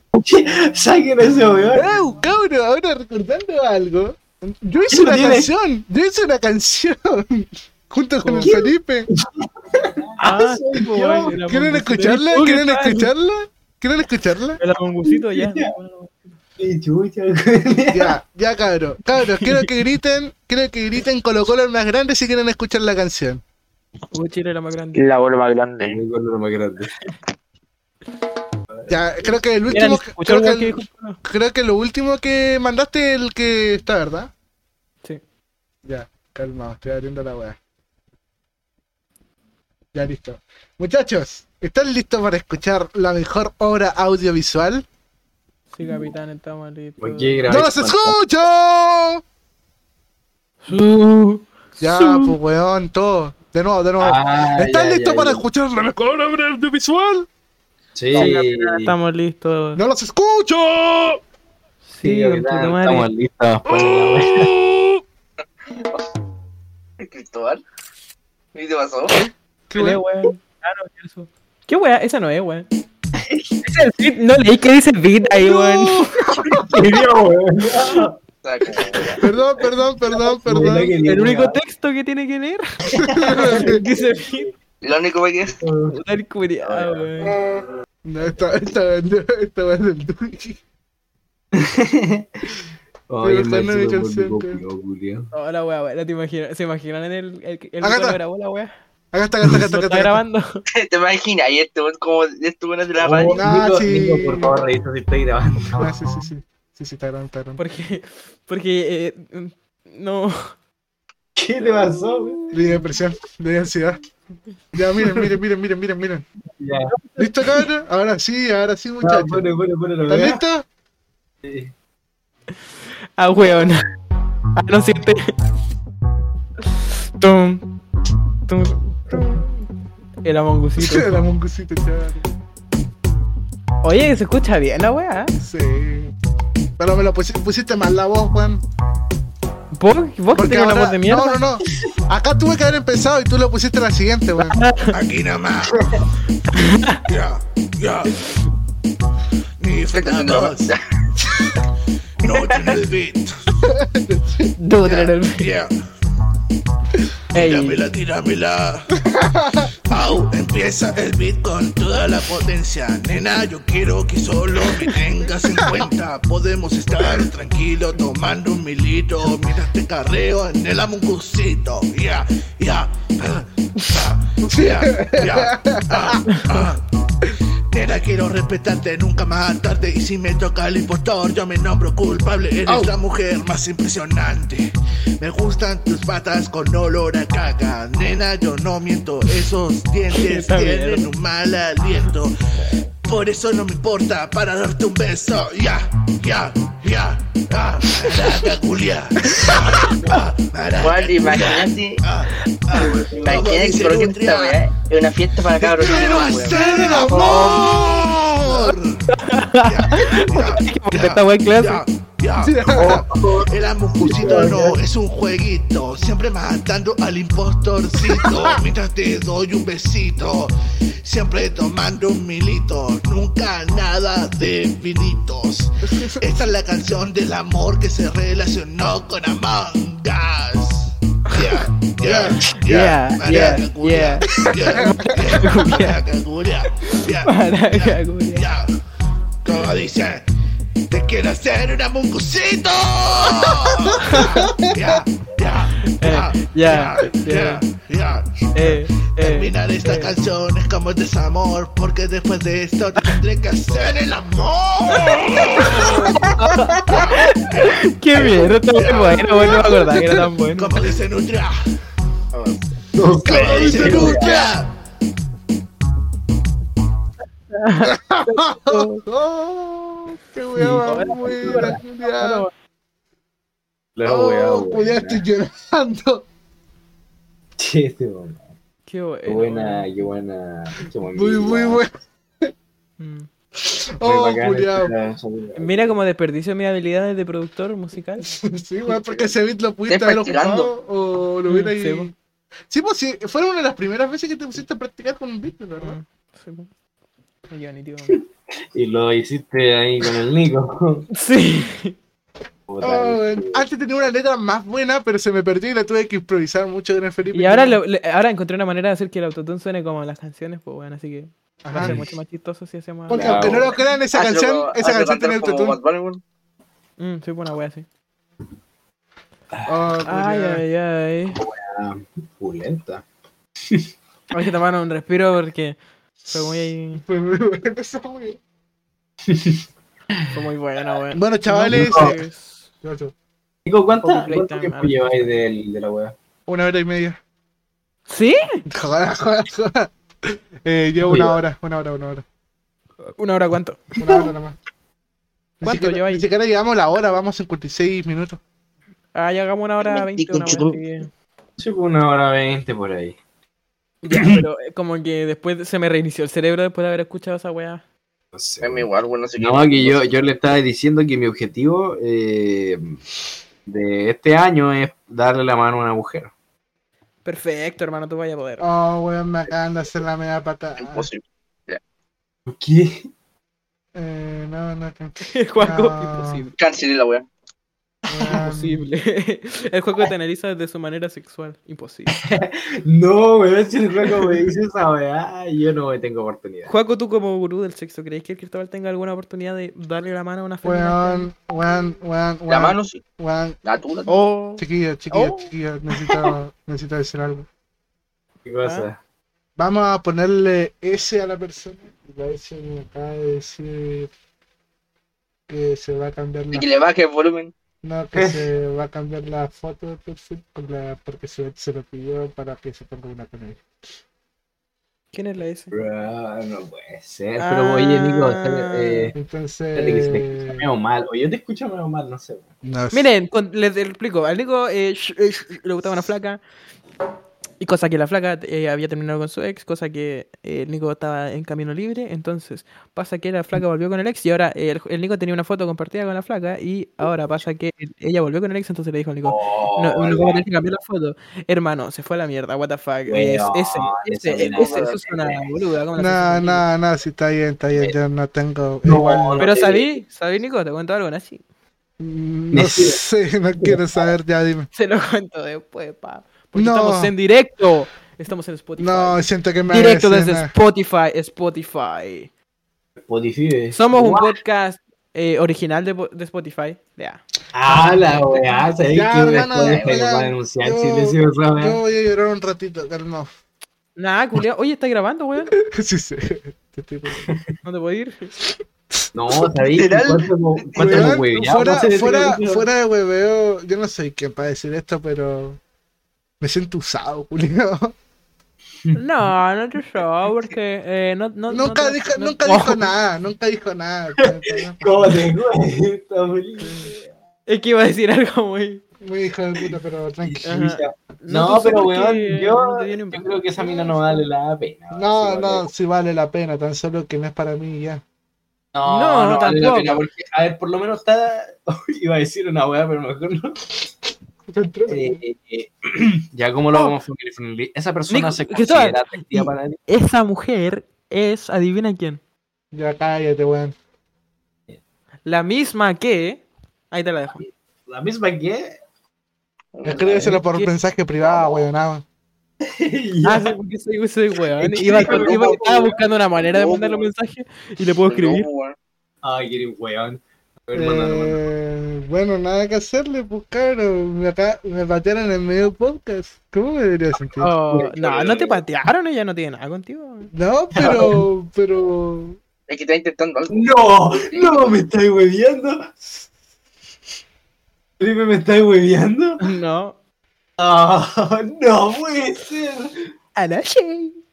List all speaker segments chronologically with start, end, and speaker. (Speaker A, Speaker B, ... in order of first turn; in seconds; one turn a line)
Speaker A: 0.1-2.0
Speaker B: 1.7-9.1
Speaker A: 4.9-5.5
Speaker C: 8.2-8.5
Speaker A: 8.4-11.4
Speaker C: 10.2-13.1
Speaker B: 11.5-14.6
Speaker C: 14.6-16.3
Speaker A: 15.0-15.7
Speaker A: 16.6-18.1
Speaker B: 17.9-23.4
Speaker C: 19.4-19.7
Speaker C: 24.1-25.0
Speaker D: 24.9-26.0
Speaker A: 25.8-26.9
Speaker A: 28.7-29.4
Speaker B: 28.9-34.3
Speaker C: 29.7-31.2
Speaker B: 35.8-37.6
Speaker B: 39.9-44.8
Speaker C: 45.7-47.4
Speaker A: 47.0-48.1
Speaker B: 47.5-49.2
Speaker C: 50.6-52.4
Speaker B: 51.8-57.3
Speaker A: 54.0-55.4
Speaker A: 57.9-58.9
Speaker C: 58.1-59.8
Speaker B: 59.8-61.2
Speaker C: 61.8-63.1
Speaker A: 62.0-64.5
Speaker B: 63.7-65.0
Speaker D: 67.0-67.6
Speaker D: 68.5-69.2
Speaker B: 69.7-70.0
Speaker C: 69.7-72.7
Speaker A: 73.2-73.6
Speaker C: 73.6-76.9
Speaker B: 75.3-76.9
Speaker A: 76.5-78.2
Speaker D: 78.4-79.2
Speaker A: 78.9-79.2
Speaker B: 79.2-81.0
Speaker A: 80.2-81.6
Speaker C: 81.0-84.5
Speaker A: 82.9-83.8
Speaker B: 83.0-83.8
Speaker D: 84.8-85.6
Speaker A: 85.5-86.0
Speaker C: 85.9-87.4
Speaker B: 88.0-90.6
Speaker A: 91.5-92.5
Speaker A: 93.1-95.3
Speaker B: 93.2-94.6
Speaker C: 95.3-98.7
Speaker B: 97.8-98.2
Speaker B: 99.1-100.2
Speaker C: 99.5-100.6
Speaker D: 100.7-103.4
Speaker A: 103.0-105.9
Speaker B: 103.3-104.6
Speaker B: 105.8-107.6
Speaker C: 107.6-110.5
Speaker A: 111.3-112.4
Speaker C: 111.7-113.0
Speaker B: 112.5-114.0
Speaker B: 114.7-116.2
Speaker A: 116.6-116.9
Speaker C: 116.9-117.7
Speaker B: 117.2-119.5
Speaker A: 119.0-120.4
Speaker B: 120.0-120.6
Speaker A: 121.4-121.7
Speaker C: 123.2-123.8
Speaker C: 124.6-125.3
Speaker C: 126.7-127.7
Speaker C: 128.4-129.6
Speaker C: 130.2-131.2
Speaker B: 130.8-132.3
Speaker C: 133.8-135.3
Speaker B: 135.4-136.1
Speaker B: 136.8-138.6
Speaker C: 139.7-141.4
Speaker B: 140.3-144.6
Speaker C: 144.4-144.9
Speaker E: 144.9-146.1
Speaker C: 146.5-147.0
Speaker E: 146.7-148.4
Speaker E: 149.6-150.8
Speaker D: 149.9-150.8
Speaker E: 152.2-153.4
Speaker B: 153.6-154.5
Speaker C: 154.6-155.5
Speaker E: 154.8-155.7
Speaker C: 157.3-157.8
Speaker E: 157.3-158.9
Speaker B: 159.0-159.7
Speaker E: 159.9-184.7
Speaker B: 165.4-165.8
Speaker B: 174.4-176.2
Speaker C: 176.3-176.6
Speaker B: 182.7-182.9
Speaker E: 185.2-192.3
Speaker C: 190.1-191.1
Speaker E: 193.0-204.6
Speaker D: 200.8-202.0
Speaker D: 203.2-206.6
Speaker E: 205.6-209.0
Speaker B: 205.8-207.8
Speaker D: 207.1-207.5
Speaker B: 208.4-208.7
Speaker C: 209.1-211.8
Speaker E: 209.6-220.5
Speaker B: 212.4-213.1
Speaker A: 212.7-214.6
Speaker B: 214.1-214.7
Speaker B: 218.1-218.6
Speaker E: 221.0-238.7
Speaker B: 225.8-226.4
Speaker B: 232.0-232.5
Speaker C: 232.6-236.0
Speaker B: 234.4-235.3
Speaker C: 236.9-238.5
Speaker E: 239.4-240.2
Speaker E: 240.9-259.9
Speaker B: 243.6-245.0
Speaker C: 244.0-244.4
Speaker C: 245.8-247.6
Speaker C: 248.5-249.5
Speaker B: 249.8-250.1
Speaker C: 255.5-260.8
Speaker B: 255.8-256.1
Speaker B: 259.4-260.3
Speaker E: 260.5-261.5
Speaker D: 262.3-262.8
Speaker A: 262.9-264.4
Speaker E: 263.2-264.7
Speaker B: 263.3-264.4
Speaker C: 267.5-269.0
Speaker B: 267.9-272.4
Speaker A: 270.6-271.8
Speaker C: 270.8-272.5
Speaker A: 273.9-275.2
Speaker B: 274.0-276.2
Speaker A: 277.6-278.4
Speaker C: 278.9-279.9
Speaker A: 279.3-281.8
Speaker B: 281.0-281.9
Speaker C: 283.0-283.3
Speaker B: 283.6-284.9
Speaker A: 284.0-285.9
Speaker C: 285.6-288.3
Speaker B: 288.2-292.1
Speaker D: 288.9-289.3
Speaker D: 289.9-290.7
Speaker C: 291.5-292.1
Speaker B: 292.7-296.0
Speaker C: 295.8-296.7
Speaker C: 297.5-298.2
Speaker A: 298.1-301.1
Speaker C: 301.1-301.9
Speaker A: 302.7-303.6
Speaker B: 302.8-307.8
Speaker C: 307.3-313.6
Speaker B: 311.6-312.0
Speaker A: 311.8-312.1
Speaker B: 313.1-315.8
Speaker A: 313.1-313.7
Speaker D: 314.1-316.2
Speaker C: 317.0-317.8
Speaker B: 319.6-320.6
Speaker C: 320.0-321.4
Speaker A: 321.3-323.0
Speaker C: 324.3-327.0
Speaker B: 326.2-328.4
Speaker A: 329.3-329.6
Speaker C: 330.3-332.6
Speaker B: 331.1-332.2
Speaker A: 331.7-332.1
Speaker B: 332.8-333.1
Speaker A: 333.6-336.1
Speaker C: 334.0-335.3
Speaker B: 336.5-337.2
Speaker C: 338.1-338.6
Speaker B: 338.7-342.2
Speaker A: 341.0-341.4
Speaker C: 343.2-344.0
Speaker B: 344.0-344.6
Speaker B: 345.6-348.4
Speaker C: 345.6-346.2
Speaker C: 349.1-351.1
Speaker D: 349.8-350.8
Speaker A: 351.6-353.2
Speaker C: 354.0-357.8
Speaker A: 354.1-354.4
Speaker A: 358.3-358.9
Speaker D: 358.6-360.1
Speaker A: 359.4-363.0
Speaker A: 363.6-366.3
Speaker C: 367.2-368.6
Speaker B: 368.6-371.1
Speaker D: 370.8-371.8
Speaker A: 372.5-373.1
Speaker B: 373.9-376.4
Speaker C: 375.2-376.5
Speaker D: 376.6-377.2
Speaker B: 378.1-378.8
Speaker C: 378.2-382.1
Speaker A: 382.2-386.7
Speaker C: 386.6-391.3
Speaker B: 390.6-393.6
Speaker D: 392.5-393.0
Speaker D: 393.6-394.1
Speaker C: 394.1-396.3
Speaker B: 394.6-397.5
Speaker A: 398.4-399.0
Speaker B: 399.6-404.1
Speaker B: 405.5-406.6
Speaker D: 406.5-407.5
Speaker B: 407.8-413.6
Speaker A: 408.1-408.4
Speaker C: 415.1-415.7
Speaker A: 415.7-419.1
Speaker C: 417.4-419.1
Speaker B: 419.1-420.7
Speaker A: 419.8-422.5
Speaker B: 422.6-423.1
Speaker C: 422.9-426.4
Speaker C: 427.6-446.7
Speaker A: 439.2-440.4
Speaker A: 443.1-445.4
Speaker D: 444.3-445.4
Speaker B: 445.9-449.5
Speaker A: 448.9-450.0
Speaker C: 449.4-451.4
Speaker B: 452.0-454.7
Speaker A: 452.5-453.0
Speaker A: 453.6-454.0
Speaker C: 454.7-462.3
Speaker B: 456.5-457.1
Speaker B: 458.8-460.5
Speaker A: 463.0-464.3
Speaker C: 463.7-467.2
Speaker A: 467.5-471.8
Speaker B: 468.9-473.3
Speaker D: 469.4-470.1
Speaker C: 474.0-475.5
Speaker B: 475.6-477.4
Speaker C: 477.6-478.3
Speaker A: 479.1-482.6
Speaker D: 479.6-481.2
Speaker B: 480.8-485.6
Speaker B: 486.4-487.9
Speaker C: 488.9-492.9
Speaker B: 491.5-495.2
Speaker A: 494.2-497.1
Speaker B: 496.6-496.9
Speaker C: 497.5-498.8
Speaker B: 499.0-500.6
Speaker A: 500.2-505.6
Speaker C: 500.4-504.2
Speaker B: 504.9-508.0
Speaker A: 508.7-513.8
Speaker C: 508.8-510.0
Speaker B: 514.5-515.2
Speaker A: 514.9-519.8
Speaker C: 518.1-522.2
Speaker B: 522.7-523.7
Speaker C: 525.2-527.5
Speaker A: 527.9-528.8
Speaker D: 529.8-530.4
Speaker B: 529.8-532.0
Speaker C: 530.3-530.7
Speaker D: 531.2-531.6
Speaker A: 532.6-533.5
Speaker C: 533.2-538.5
Speaker A: 534.6-536.0
Speaker D: 534.9-537.0
Speaker D: 538.1-538.8
Speaker A: 539.2-541.4
Speaker B: 540.7-547.5
Speaker C: 547.4-550.3
Speaker A: 547.6-548.6
Speaker B: 550.3-552.4
Speaker A: 550.8-551.2
Speaker D: 552.7-554.7
Speaker A: 553.5-556.0
Speaker A: 558.0-559.4
Speaker C: 559.4-560.0
Speaker A: 560.6-563.1
Speaker C: 563.4-564.2